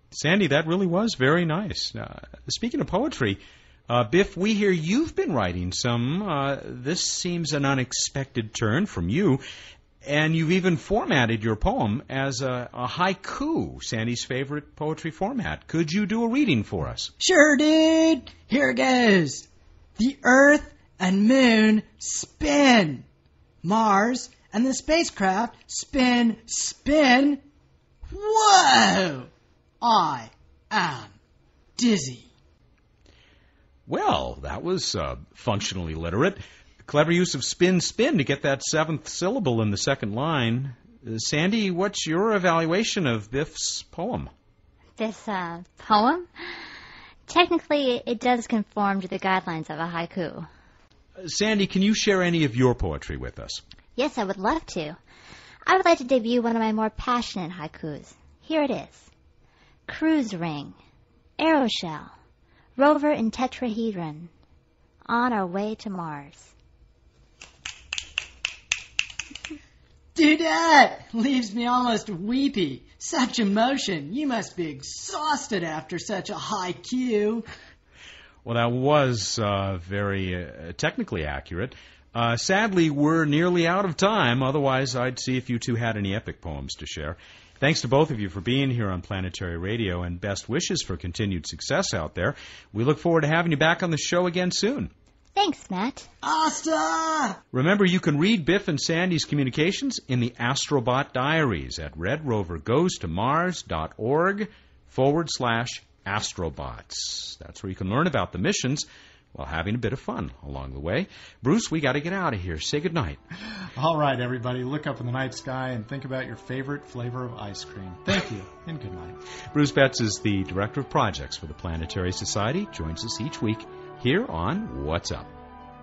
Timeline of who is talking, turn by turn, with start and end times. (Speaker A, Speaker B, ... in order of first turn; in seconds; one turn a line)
Speaker A: 0.1-9.4
Speaker A: 10.1-17.1
Speaker B: 17.2-23.1
Speaker B: 23.6-27.4
Speaker B: 28.1-29.3
Speaker B: 29.8-31.1
Speaker B: 31.8-32.3
Speaker A: 33.9-44.3
Speaker C: 45.0-46.3
Speaker C: 47.3-50.5
Speaker A: 51.2-53.6
Speaker C: 54.0-55.0
Speaker C: 55.7-59.1
Speaker C: 59.9-60.8
Speaker C: 61.4-62.1
Speaker C: 62.8-64.3
Speaker C: 65.1-66.5
Speaker B: 70.2-77.5
Speaker A: 78.4-94.9
Speaker C: 95.4-96.1
Speaker B: 96.2-97.4
Speaker A: 97.5-113.2
Speaker D: 113.8-119.2
Speaker A: 119.5-125.3